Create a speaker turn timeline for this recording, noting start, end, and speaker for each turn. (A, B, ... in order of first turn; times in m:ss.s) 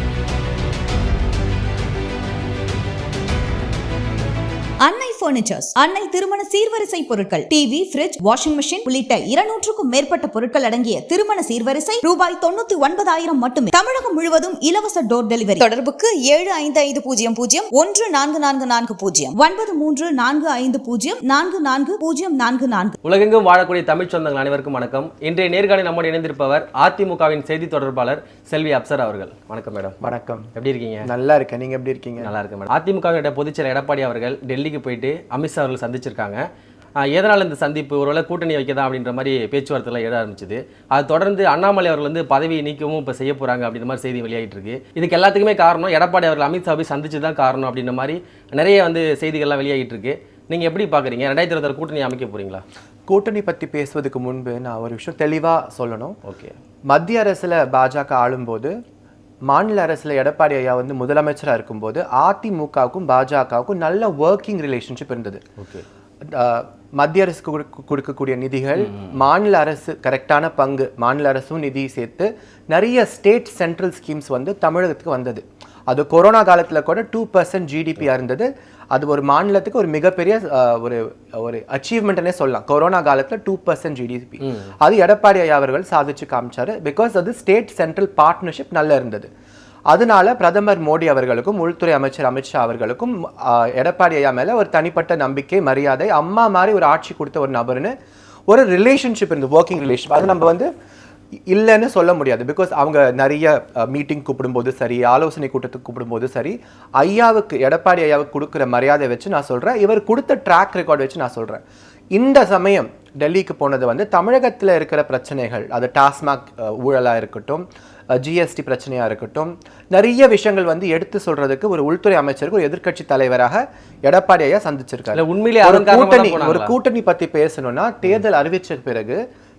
0:04.8-0:23.0 A
0:23.0-0:30.0 B
0:30.0-0:30.5 C
0:30.6-0:31.1 B
0:31.0-0:32.3 C
0:32.2-0:36.4 B
0:37.0-0:52.6 B
0:53.1-0:56.2 C
0:56.2-0:56.6 B
0:56.9-0:58.8 C
0:59.5-1:05.4 C
1:05.6-1:05.8 B
1:06.2-1:29.3 C
1:24.4-1:24.7 B
1:29.9-1:37.9 C
1:38.5-1:40.7 C
1:41.5-1:51.6 C
1:52.1-2:09.2 C
2:05.1-2:06.7 B